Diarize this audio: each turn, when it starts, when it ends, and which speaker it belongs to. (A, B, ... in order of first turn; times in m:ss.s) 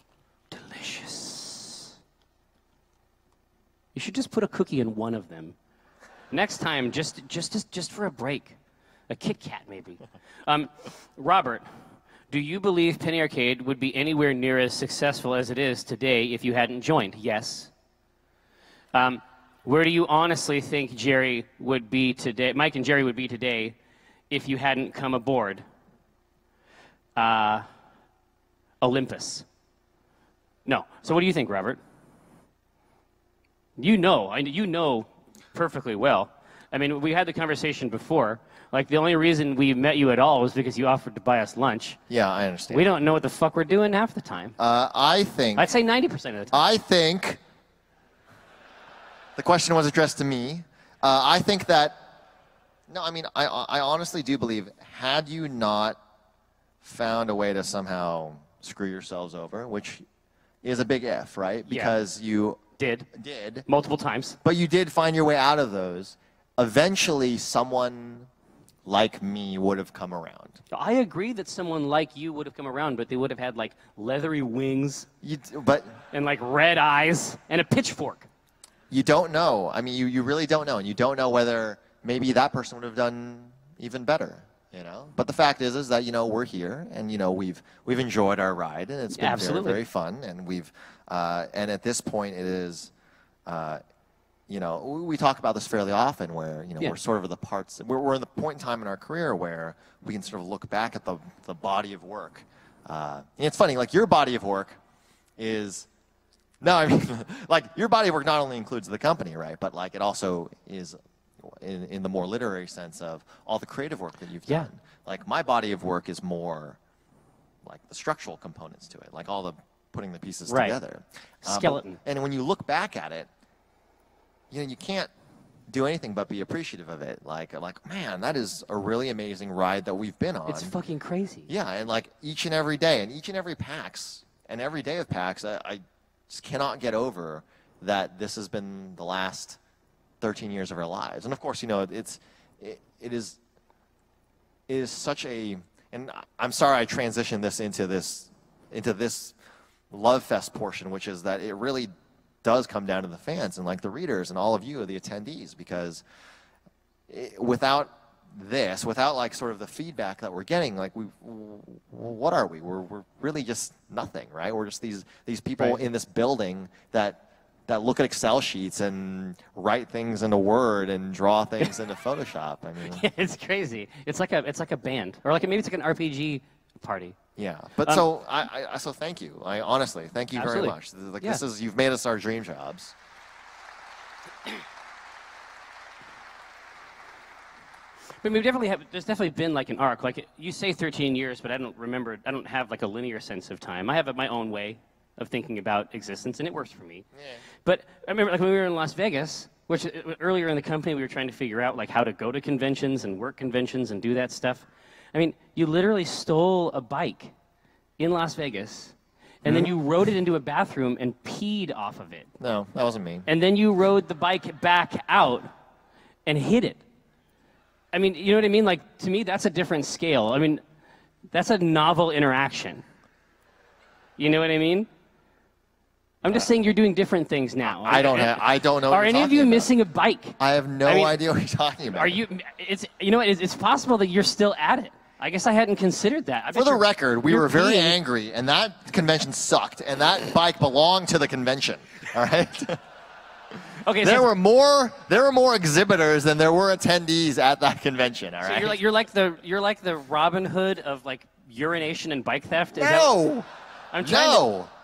0:00.5-0:01.9 A
0:03.9-0:05.6 A
0:06.3-0:08.6 A
0:09.1-0:11.7 A
0:12.3-0:17.7 A
0:18.9-0:23.8 A
0:24.3-0:25.6 A
0:27.2-0:27.6 A
0:28.8-0:29.4 A
0:30.7-0:31.8 A
0:33.8-0:42.0 A
0:42.1-0:42.8 B
0:42.7-0:44.6 A
0:44.6-0:45.7 B
0:45.6-0:46.6 A
0:46.5-0:47.4 B
0:49.4-0:52.0 B
0:52.9-0:56.0 B
0:56.8-1:00.0 B
1:00.6-1:02.6 B
1:01.7-1:02.0 A
1:02.8-1:03.1 A
1:03.1-1:03.7 B
1:03.7-1:04.4 A
1:04.4-1:08.3 B
1:08.9-1:10.6 B
1:10.7-1:15.1 A
1:15.2-1:16.0 B
1:16.1-1:18.3 A
1:18.9-1:32.9 B
1:29.1-1:29.8 A
1:33.5-1:33.8 B
1:34.5-1:44.8 B
1:45.4-1:45.9 B
1:46.6-1:56.8 B
1:57.6-2:03.3 B
2:00.5-2:00.8 A
2:01.4-2:02.0 A
2:04.5-2:05.1 B
2:05.7-2:10.7 B
2:10.5-2:11.5 A
2:11.5-2:19.6 B
2:20.2-2:23.4 B
2:24.7-2:29.4 B
2:29.9-2:31.9 B
2:32.4-2:36.0 B
2:37.1-2:53.1 B
2:45.6-2:45.8 A
2:52.8-2:57.2 A
2:57.4-3:02.9 B
3:00.4-3:01.4 A
3:08.2-3:17.1 A
3:17.2-3:17.4 B
3:17.6-3:27.3 A
3:28.0-3:32.3 A
3:29.4-3:29.8 B
3:32.4-3:33.3 B
3:33.3-3:35.5 A
3:36.3-3:36.8 A
3:37.9-3:40.6 A
3:41.3-3:42.8 A
3:44.2-3:44.9 A
3:46.2-3:51.2 A
3:46.3-3:46.5 B
3:47.6-3:49.7 B
3:50.4-3:52.2 B
3:51.9-3:58.0 A
3:56.5-4:02.8 B
4:03.8-4:04.3 A
4:04.0-4:08.8 B
4:08.4-4:13.3 A
4:12.7-4:13.4 B
4:13.9-4:14.5 A
4:14.0-4:14.7 B